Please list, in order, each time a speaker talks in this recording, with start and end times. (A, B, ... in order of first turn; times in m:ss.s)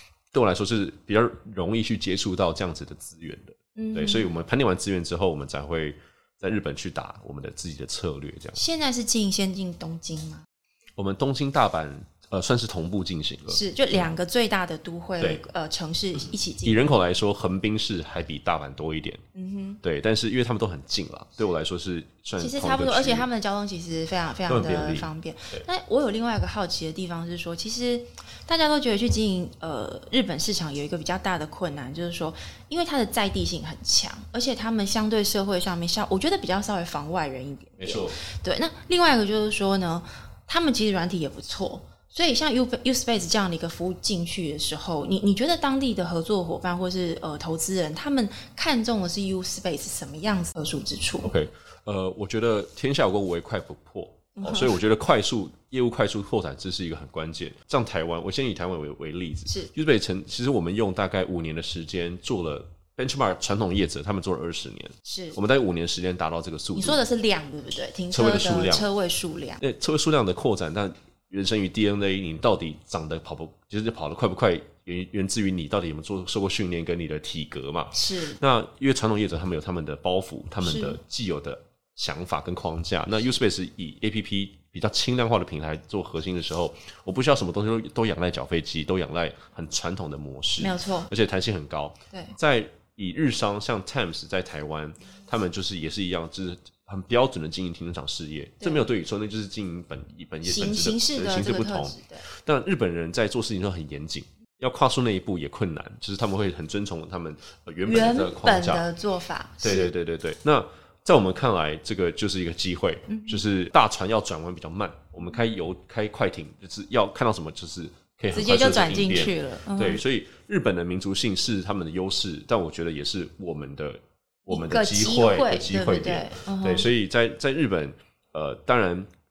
0:00.3-0:08.6 A
0:03.8-0:04.3 B
0:08.6-0:10.4 B
0:11.0-0:14.1 A
0:13.5-0:16.9 B
0:16.6-0:19.2 A
0:19.3-0:19.8 B
0:19.8-0:23.3 A
0:22.4-0:51.3 B
0:24.5-0:25.6 A
0:37.8-0:38.2 A
0:51.2-1:07.0 A
0:54.4-0:54.8 B
1:05.0-1:05.4 B
1:06.7-1:09.6 B
1:08.1-1:08.9 A
1:09.6-1:48.8 A
1:17.9-1:18.4 B
1:20.6-1:21.0 B
1:30.6-1:31.1 B
1:38.6-1:38.9 B
1:40.4-1:42.2 B
1:47.8-1:49.9 B
1:49.6-2:09.1 A
1:53.1-1:53.4 B
1:58.3-2:00.0 B
2:04.5-2:06.9 B